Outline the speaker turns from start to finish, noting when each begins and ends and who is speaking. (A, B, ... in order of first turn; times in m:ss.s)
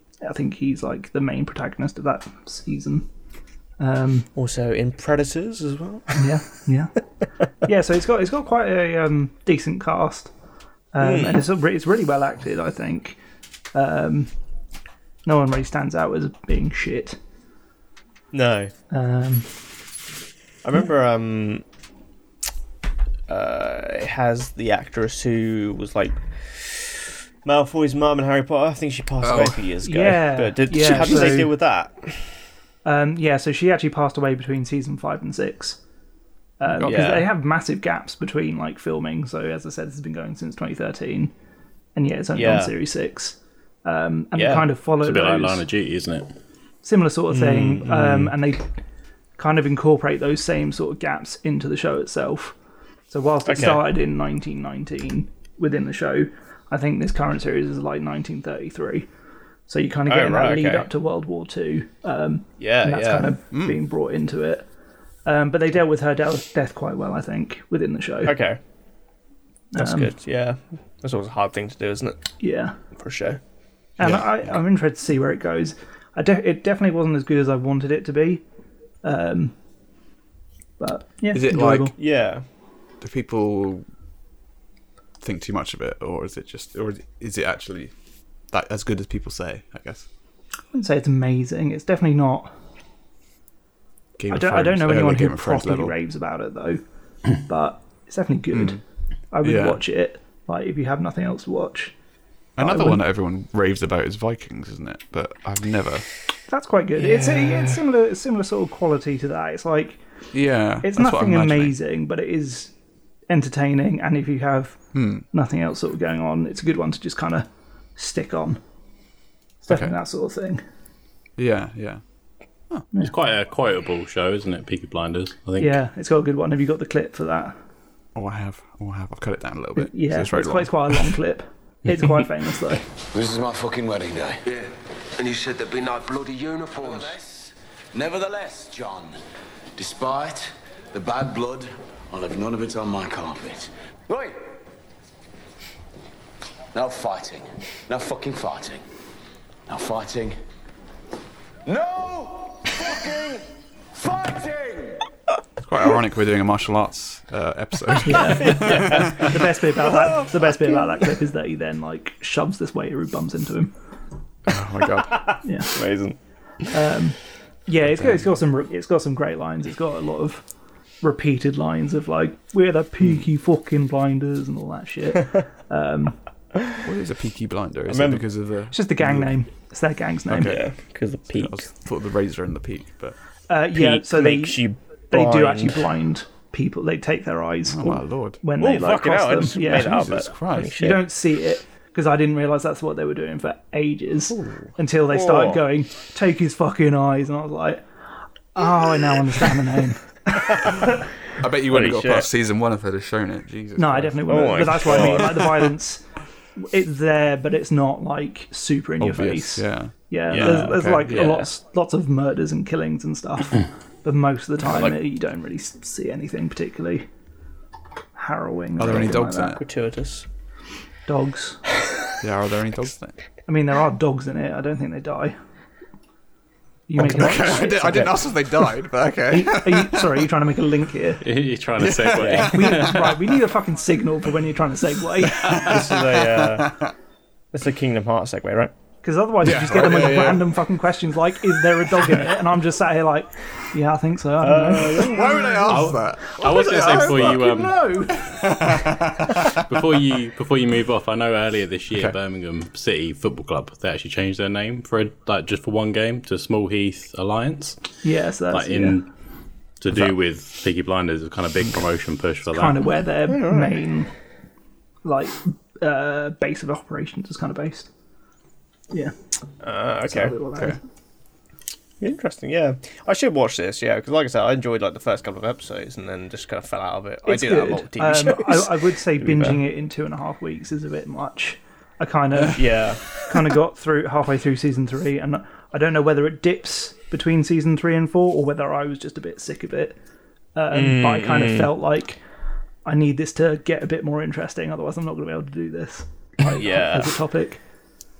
0:00.2-0:03.1 A
0:03.8-0:04.3 A
0:04.3-0:06.2 B
0:06.2-0:06.9 A
0:07.6-0:10.3 A
0:10.9-0:13.2 A
0:11.0-0:11.4 B
0:13.7-0:14.3 A
0:15.2-0:17.2 A
0:18.3-0:18.7 B
0:18.9-0:19.5 A
0:20.6-0:21.6 B
0:23.3-0:32.3 B
0:29.2-0:29.6 C
0:29.8-0:31.5 A
0:30.8-0:31.4 C
0:32.8-0:35.8 A
0:36.6-0:41.3 A
0:36.7-0:37.0 C
0:36.8-0:37.3 B
0:41.9-0:45.6 A
0:42.3-0:42.7 B
0:44.3-0:44.6 B
0:45.0-0:46.3 D
0:46.8-0:48.7 A
0:47.3-0:48.3 B
0:49.4-0:52.5 A
0:53.1-0:59.1 A
0:53.4-0:53.8 B
0:59.7-1:04.6 A
1:00.1-1:00.9 B
1:02.6-1:03.3 B
1:03.5-1:03.8 C
1:05.2-1:08.3 A
1:08.2-1:08.6 B
1:09.7-1:10.1 A
1:09.8-1:12.3 B
1:12.4-1:12.8 A
1:12.9-1:13.4 B
1:14.0-1:18.4 A
1:14.0-1:14.3 C
1:19.0-1:19.5 A
1:20.8-1:21.9 A
1:21.3-1:21.9 C
1:22.0-1:22.4 B
1:23.0-1:23.8 C
1:25.2-1:27.9 C
1:28.5-1:30.0 C
1:30.7-1:32.5 A
1:34.2-1:35.9 C
1:34.3-1:36.8 A
1:37.3-1:38.8 A
1:38.5-1:38.8 C
1:39.3-1:41.9 A
1:39.4-1:39.8 C
1:42.6-1:46.0 C
1:42.6-1:43.0 A
1:46.5-1:50.0 A
1:47.0-1:47.8 B
1:50.3-1:51.8 C
1:50.8-1:52.7 A
1:53.3-1:54.8 A
1:54.9-1:55.2 C
1:55.3-1:58.6 A
1:59.6-2:00.6 A
1:59.7-1:59.9 C
2:01.4-2:02.0 C
2:03.0-2:05.8 D
2:05.6-2:07.5 A
2:08.1-2:11.2 C
2:09.8-2:12.8 A
2:13.1-2:14.6 E
2:15.2-2:17.2 F
2:16.8-2:19.2 E
2:19.8-2:24.4 E
2:26.7-2:28.8 E
2:29.7-2:30.4 E
2:31.6-2:35.0 E
2:35.6-2:39.2 C
2:38.0-2:43.7 A
2:38.3-2:40.9 B
2:44.5-2:45.3 C
2:45.2-2:46.2 B
2:45.4-2:45.7 A
2:46.7-2:50.4 A
2:47.8-2:48.2 C
2:51.0-2:56.2 A
2:56.8-2:59.3 C
2:57.8-2:58.2 B
2:58.7-3:00.6 A
3:00.3-3:00.7 C
3:00.4-3:01.6 B
3:01.2-3:03.2 C
3:03.5-3:10.1 A
3:03.7-3:05.8 B
3:07.7-3:08.4 C
3:08.6-3:11.0 B
3:09.6-3:10.7 C
3:10.6-3:17.8 A
3:14.3-3:14.6 C
3:15.1-3:15.6 B
3:18.5-3:20.9 A
3:20.5-3:20.9 B
3:21.4-3:24.5 C
3:21.6-3:22.3 B
3:23.8-3:26.0 A
3:24.2-3:25.6 B
3:26.6-3:37.1 A
3:29.0-3:31.4 C
3:30.3-3:31.4 B
3:34.7-3:34.9 B
3:38.2-3:39.6 A
3:38.8-3:39.6 C
3:39.5-3:40.2 B
3:41.1-3:41.6 A
3:42.2-3:43.1 C
3:43.5-3:45.3 A
3:46.9-3:48.2 A
3:47.0-3:50.2 C
3:49.3-3:51.2 A
3:51.2-3:53.2 D
3:51.8-3:53.2 C
3:52.2-3:52.5 B
3:52.5-3:55.5 A
3:55.4-3:56.9 C
3:55.5-3:56.8 B
3:57.5-3:58.7 B
3:59.0-4:08.2 A
3:59.4-4:00.6 C
4:04.4-4:05.8 B
4:05.0-4:07.4 C
4:05.7-4:07.8 D
4:08.2-4:09.4 C
4:09.5-4:17.8 D
4:18.0-4:19.0 A
4:18.5-4:19.1 D
4:19.8-4:22.9 D
4:22.5-4:24.1 A
4:23.3-4:23.8 B
4:25.0-4:27.9 A
4:29.6-4:30.3 B
4:30.1-4:30.8 A
4:32.0-4:39.6 B
4:37.2-4:50.0 A
4:42.5-4:43.0 B
4:50.6-4:52.2 A
4:50.7-4:51.7 B
4:52.8-4:57.6 A
4:56.5-4:57.2 B